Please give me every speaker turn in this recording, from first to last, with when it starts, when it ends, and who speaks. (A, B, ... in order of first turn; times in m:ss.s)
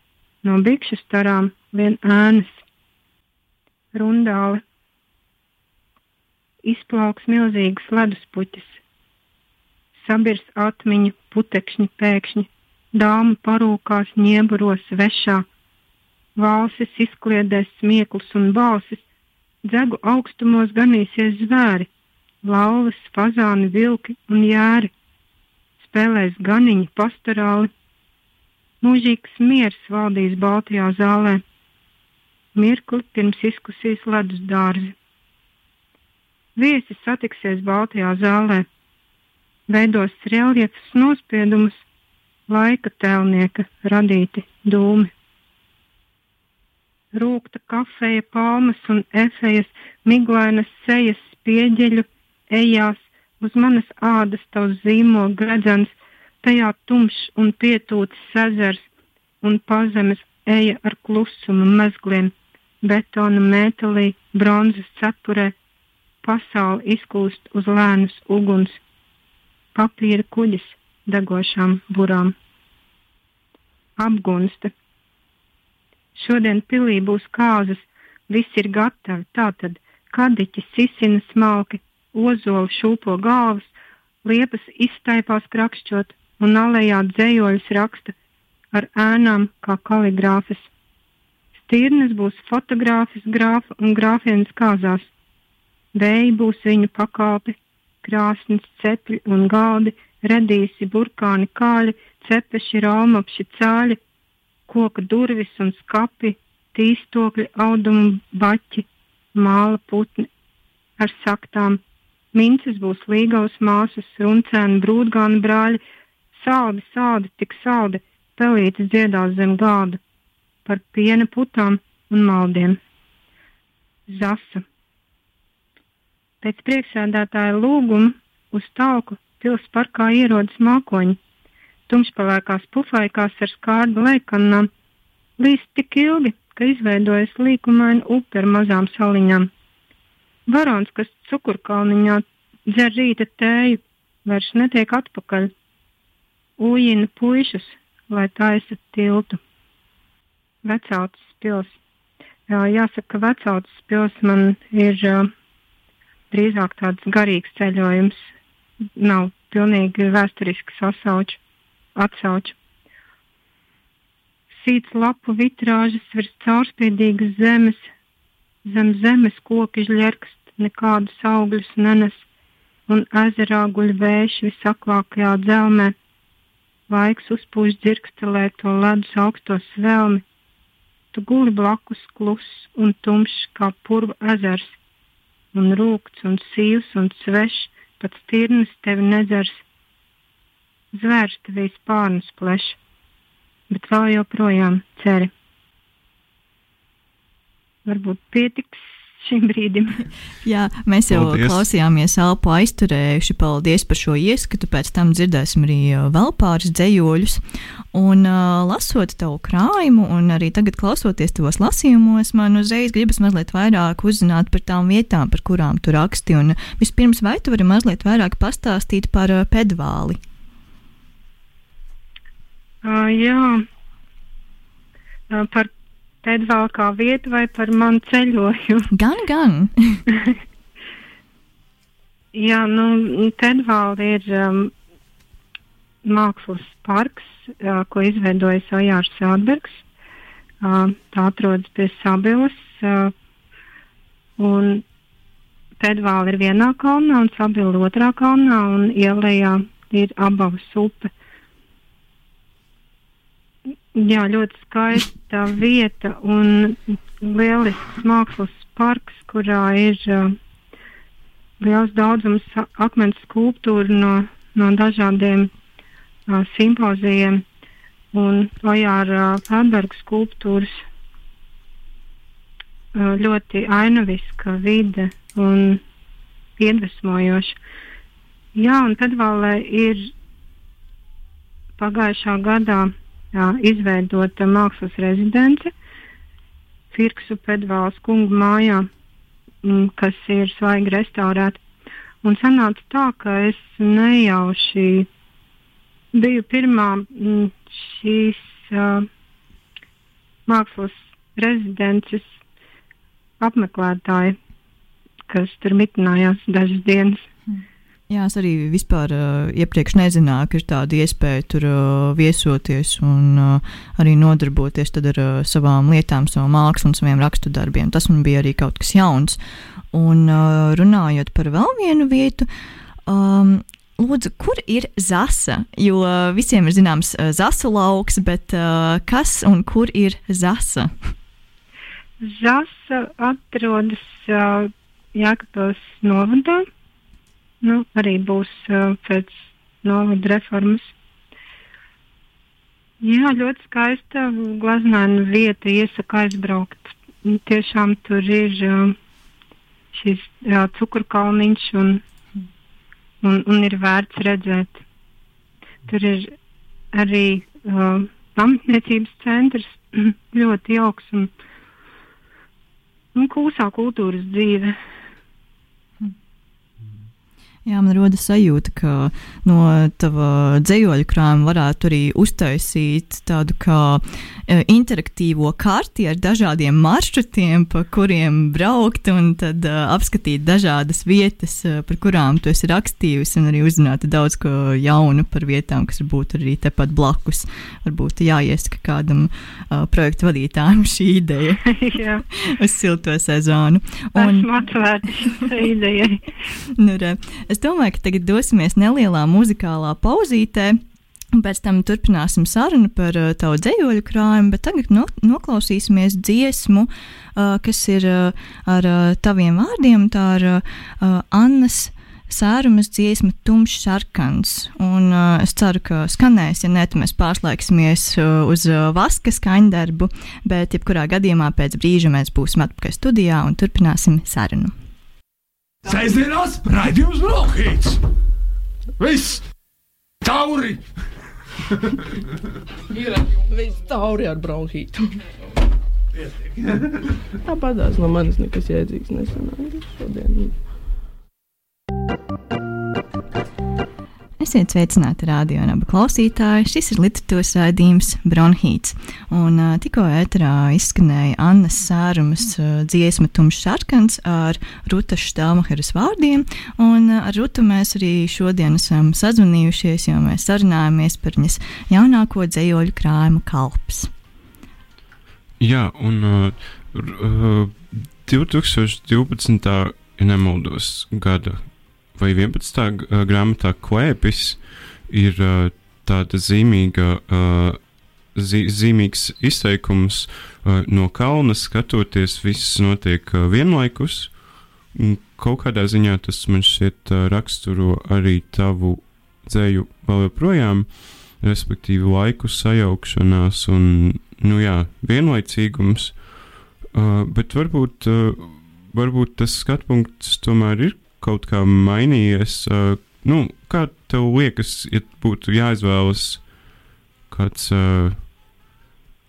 0:00.4-0:02.6 A
0:03.9-0:04.6 A
0:06.6-0:08.8 A
0:10.0-0:15.4 A
0:16.4-0:19.0 A
0:19.6-0:21.9 A
0:22.4-0:24.9 A
0:25.8-0:27.7 A
0:28.8-0:31.4 A
0:32.5-0:34.9 A
0:36.6-0:38.6 A
0:39.7-0:41.8 A
0:42.5-0:45.1 A
0:47.1-0:58.9 A
0:59.4-1:05.5 A
1:06.2-1:08.8 A
1:09.7-1:12.3 A
1:14.0-1:14.7 A
1:16.1-1:23.7 A
1:24.2-1:28.1 A
1:28.7-1:30.7 A
1:31.6-1:35.1 A
1:35.9-1:44.0 A
1:44.7-1:50.3 A
1:51.0-1:51.8 A
1:52.3-1:55.8 A
1:56.3-2:00.0 A
2:00.6-2:02.8 A
2:04.1-2:04.6 A
2:06.4-2:11.2 A
2:11.9-2:14.7 A
2:15.4-2:19.5 A
2:20.5-2:25.5 A
2:26.6-2:29.4 A
2:30.6-2:31.7 A
2:32.5-2:35.3 A
2:36.3-2:38.2 A
2:39.0-2:41.4 A
2:41.9-2:42.6 A
2:44.5-2:47.9 A
2:48.6-2:52.2 A
2:52.9-2:55.9 A
2:56.9-3:00.2 A
3:01.1-3:04.8 A
3:05.5-3:09.6 A
3:10.9-3:12.8 A
3:13.7-3:15.3 A
3:17.8-3:20.0 A
3:20.4-3:27.4 B
3:21.1-3:21.6 C
3:27.9-3:40.2 B
3:42.8-3:43.6 A
3:45.3-3:45.7 A
3:46.2-3:48.9 A
3:48.9-3:50.0 B
3:52.3-3:54.7 A
3:56.0-3:59.8 A
4:00.6-4:03.1 A
4:04.4-4:04.8 A
4:05.8-4:11.1 A
4:13.9-4:20.3 A
4:21.6-4:25.5 A
4:26.3-4:27.4 A
4:28.1-4:30.8 A
4:32.9-4:35.8 A
4:36.6-4:37.6 A
4:38.5-4:40.1 A
4:41.8-4:45.7 A
4:46.9-4:48.9 A
4:49.6-4:51.6 A
4:52.2-4:55.1 A
4:56.1-4:59.1 A
5:00.5-5:02.4 A
5:03.4-5:04.4 A
5:05.3-5:07.3 A
5:07.5-5:19.4 B
5:19.9-5:22.5 B
5:23.0-5:30.9 B
5:32.2-5:36.6 A
5:37.6-5:40.9 A
5:43.0-5:49.0 A
5:49.9-5:52.0 A
5:53.2-5:54.8 A
5:55.9-5:56.3 A
5:56.9-6:01.3 A
6:03.1-6:04.8 A
6:07.6-6:31.7 B
6:31.6-6:32.2 A
6:32.3-6:34.5 B
6:34.2-6:36.2 A
6:36.7-6:40.8 B
6:41.3-7:04.7 B
7:05.8-7:08.0 D
7:09.0-7:09.5 D
7:10.2-7:10.8 D
7:12.9-7:15.2 E
7:16.1-7:17.3 D
7:17.4-7:20.6 E
7:24.4-7:44.1 B
7:45.6-7:57.8 C
7:58.3-8:04.3 C
8:04.9-8:16.2 C
8:16.9-8:26.5 C
8:27.3-8:28.3 C